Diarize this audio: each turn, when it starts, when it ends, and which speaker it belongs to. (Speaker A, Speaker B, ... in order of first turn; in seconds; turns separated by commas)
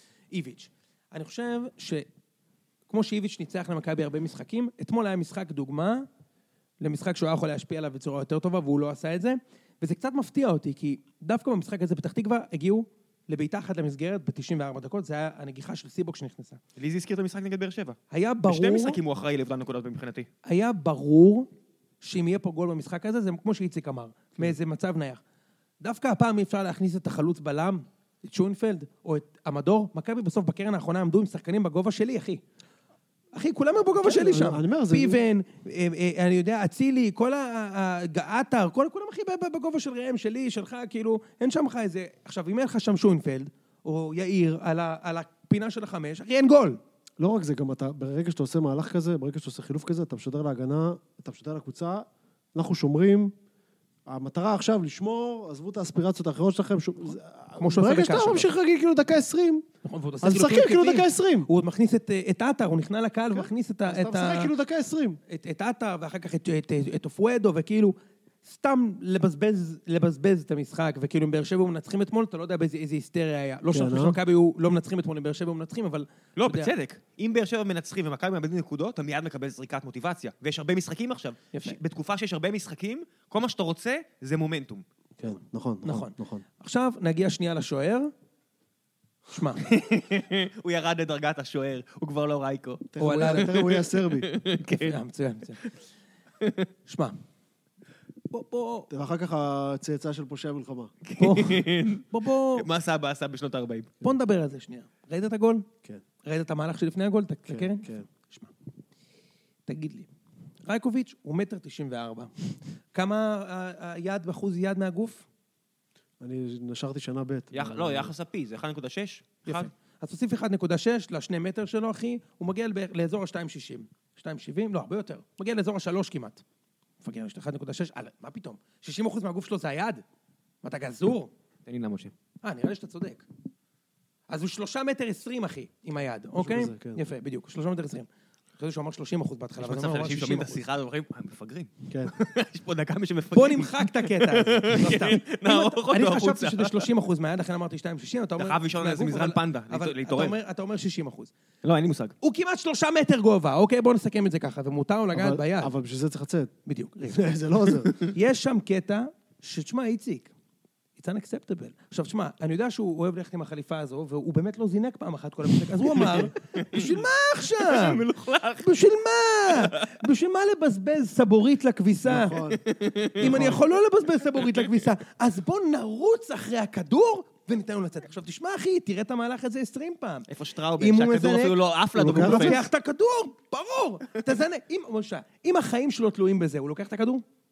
Speaker A: 0.3-2.1, Speaker A: 2.9-6.0, Speaker A: 6.8-16.6, Speaker B: 16.8-20.3, Speaker A: 18.1-19.0, Speaker A: 20.4-21.5, Speaker A: 22.0-25.2, Speaker A: 25.8-32.4, Speaker A: 33.3-46.8, Speaker C: 34.0-35.2, Speaker C: 47.2-53.3, Speaker C: 54.1-59.6, Speaker A: 57.6-58.5, Speaker A: 59.8-64.5, Speaker C: 60.2-61.5, Speaker C: 63.3-65.2, Speaker A: 65.3-76.7, Speaker C: 73.7-74.2, Speaker B: 76.3-84.8, Speaker A: 81.5-81.8, Speaker C: 85.2-86.4, Speaker A: 85.8-88.1, Speaker A: 89.3-89.7, Speaker B: 89.6-95.0, Speaker C: 92.9-94.3, Speaker A: 93.0-93.5, Speaker A: 94.6-95.6, Speaker B: 96.4-96.7, Speaker A: 96.8-97.2, Speaker A: 98.3-98.9, Speaker C: 98.9-100.9, Speaker B: 101.0-103.9, Speaker A: 101.2-102.7, Speaker A: 104.0-105.7, Speaker A: 106.2-108.5, Speaker C: 107.5-108.1, Speaker A: 109.7-110.1, Speaker A: 110.6-112.3, Speaker A: 112.9-115.2, Speaker C: 116.2-118.1, Speaker B: 117.5-119.7, Speaker A: 119.4-126.4, Speaker A: 127.0-130.0, Speaker A: 130.6-131.3, Speaker B: 131.7-132.1, Speaker A: 132.4-133.2, Speaker A: 134.3-138.1, Speaker C: 136.4-137.0, Speaker A: 138.6-140.6, Speaker B: 139.6-146.9, Speaker A: 143.3-151.3, Speaker B: 148.4-150.4, Speaker B: 151.6-152.1, Speaker A: 152.2-155.7, Speaker C: 155.1-156.5, Speaker A: 156.7-160.3, Speaker C: 157.1-157.9, Speaker A: 161.0-168.0, Speaker B: 165.9-167.0, Speaker B: 167.5-168.8, Speaker A: 168.6-172.4, Speaker B: 169.6-169.9, Speaker C: 172.1-172.6, Speaker B: 172.5-173.6, Speaker A: 173.2-180.3, Speaker C: 173.2-173.6, Speaker B: 180.3-182.6, Speaker A: 180.8-181.6, Speaker C: 181.9-182.6, Speaker A: 182.1-187.2